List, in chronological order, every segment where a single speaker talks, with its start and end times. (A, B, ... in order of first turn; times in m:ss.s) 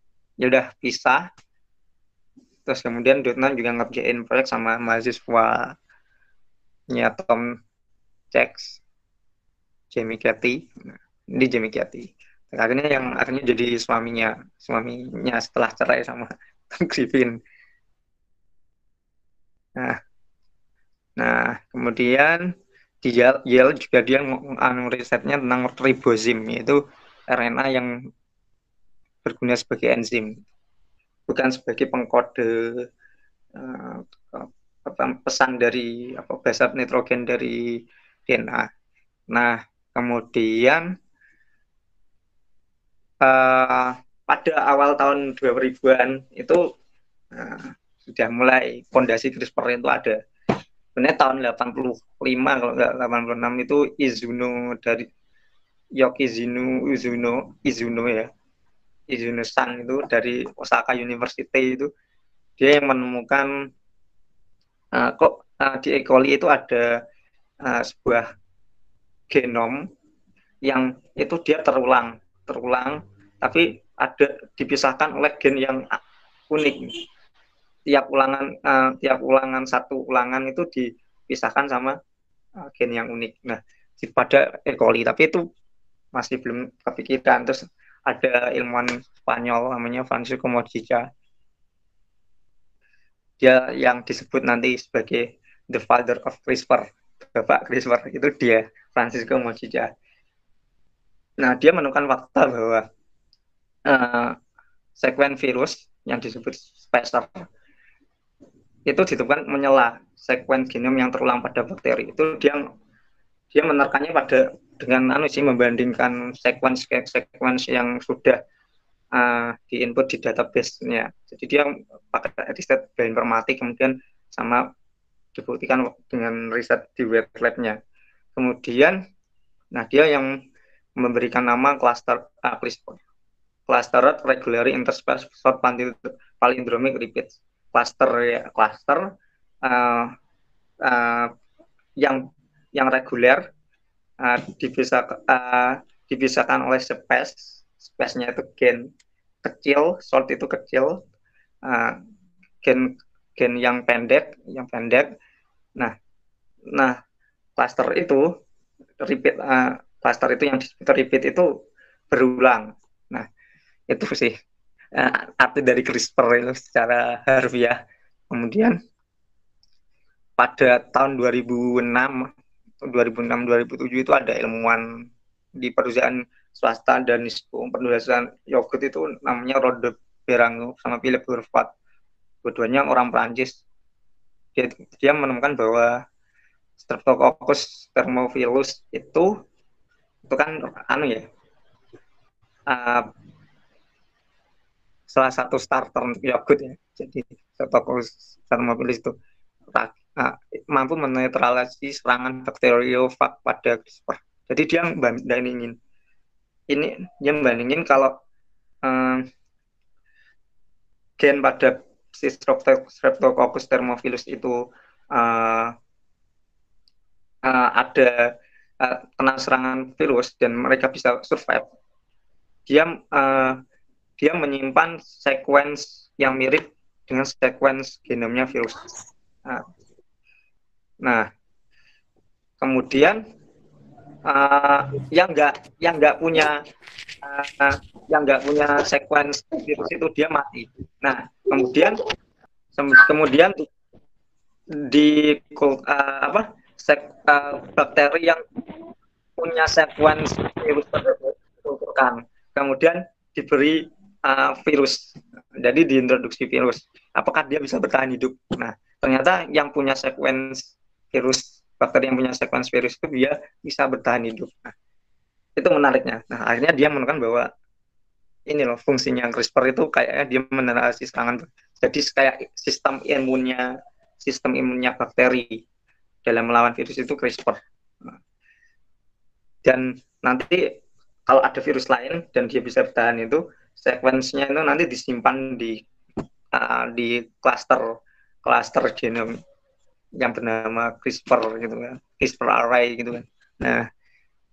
0:00.4-0:01.2 A
0:02.6-0:05.7 A
0:06.9-0:07.5 A
0:08.3-0:08.8 A
0:09.9-0:17.3 A
0:21.2-0:22.4 A
0:23.0-0:27.9 A
0:29.2-0:30.3 A
0:31.3-0:32.5 A
0:33.6-0:37.6 A
0:38.3-0:38.7 A
0:39.3-0:40.8 A
0:43.2-0:46.6 A
0:47.3-0:50.2 A
0:51.0-0:55.0 A
0:56.0-0:58.3 A
0:59.1-1:01.9 A
1:02.6-1:03.5 A
1:04.9-1:06.9 A
1:07.6-1:08.2 A
1:09.3-1:09.8 A
1:10.6-1:15.8 A
1:16.5-1:16.9 A
1:17.9-1:22.0 A
1:22.6-1:25.4 A
1:26.1-1:31.0 A
1:33.4-1:39.9 A
1:41.4-1:42.8 A
1:43.9-1:44.3 A
1:45.0-1:47.4 A
1:48.9-1:52.6 A
1:53.5-1:58.4 A
1:59.2-2:04.6 A
2:05.4-2:07.8 A
2:08.4-2:09.0 A
2:09.7-2:10.3 A
2:11.0-2:13.0 A
2:13.7-2:19.0 A
2:19.6-2:20.1 A
2:20.8-2:21.3 A
2:22.7-2:23.4 A
2:24.2-2:28.8 A
2:29.4-2:31.0 A
2:31.6-2:32.0 A
2:32.6-2:35.1 A
2:37.6-2:38.2 A
2:39.0-2:41.5 A
2:42.1-2:43.2 A
2:43.9-2:44.3 A
2:45.0-2:47.8 A
2:48.3-2:48.8 A
2:50.4-2:52.3 A
2:52.8-2:54.8 A
2:55.6-3:01.7 A
3:02.4-3:03.6 A
3:04.5-3:05.9 A
3:06.8-3:09.3 A
3:10.3-3:11.2 A
3:12.7-3:13.0 A
3:15.1-3:19.1 A
3:19.7-3:25.7 A
3:26.7-3:28.1 A
3:28.8-3:29.2 A
3:31.2-3:34.6 A
3:35.1-3:35.7 A
3:37.4-3:38.2 A
3:38.8-3:41.6 A
3:42.7-3:43.6 A
3:44.2-3:48.9 A
3:52.6-3:53.2 A
3:54.3-3:56.6 A
3:57.2-4:02.0 A
4:02.8-4:03.6 A
4:04.9-4:08.4 A
4:09.4-4:15.0 A
4:15.6-4:24.7 A
4:25.6-4:27.5 A
4:28.5-4:33.7 A
4:34.2-4:35.6 A
4:36.2-4:38.1 A
4:39.6-4:40.6 A
4:41.3-4:45.8 A
4:46.5-4:47.9 A
4:48.4-4:49.3 A
4:50.2-4:53.8 A